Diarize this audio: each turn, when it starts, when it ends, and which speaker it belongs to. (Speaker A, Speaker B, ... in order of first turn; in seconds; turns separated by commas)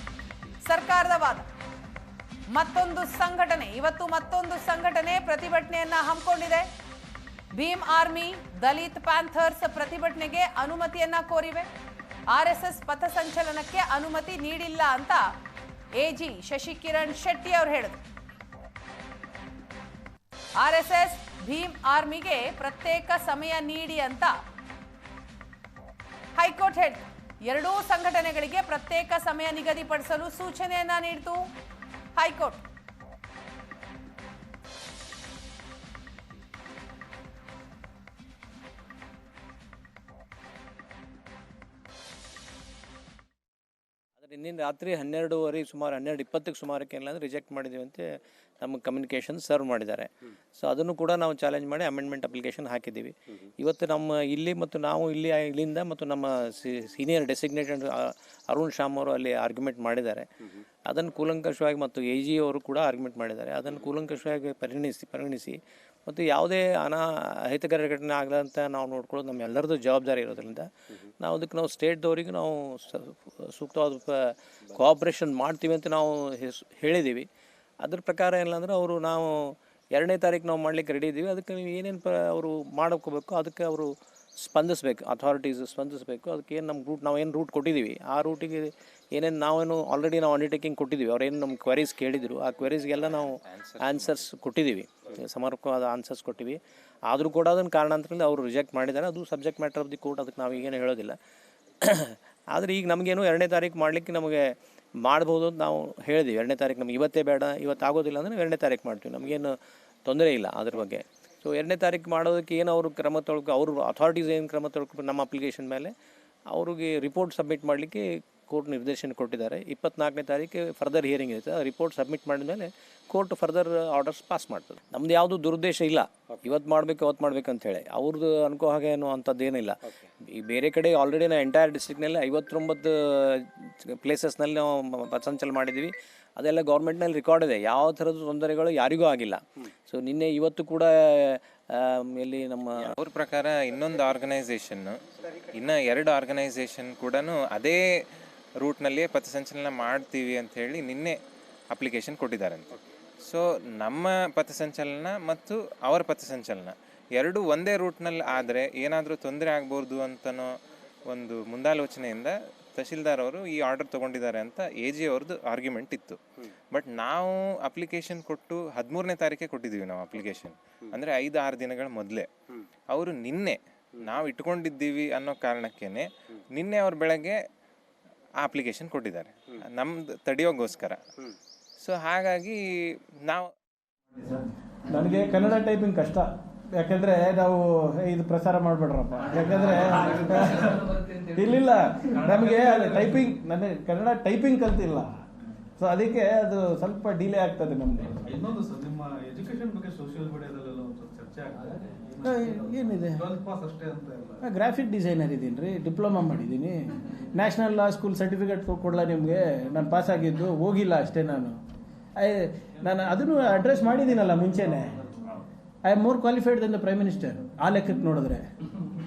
Speaker A: 0.7-1.5, Speaker A: 2.5-6.7, Speaker A: 7.5-11.7, Speaker A: 12.3-15.3, Speaker A: 16.0-18.0, Speaker A: 20.6-24.4, Speaker A: 26.4-31.4, Speaker A: 32.2-32.6, Speaker B: 44.2-77.3, Speaker B: 77.8-101.2, Speaker C: 93.5-94.2, Speaker B: 101.8-115.9, Speaker B: 116.5-142.9, Speaker C: 142.9-145.0, Speaker C: 145.5-147.8, Speaker C: 148.6-151.2, Speaker C: 151.7-152.8, Speaker C: 153.3-160.5, Speaker C: 161.1-166.2, Speaker C: 166.7-172.3, Speaker C: 172.9-177.4, Speaker C: 178.4-181.0, Speaker C: 181.8-182.6, Speaker D: 184.2-195.1, Speaker E: 192.4-192.9, Speaker D: 195.8-198.2, Speaker E: 198.2-202.6, Speaker D: 202.2-203.4, Speaker E: 203.2-204.4, Speaker D: 204.4-211.6, Speaker D: 212.2-215.0, Speaker D: 215.8-218.5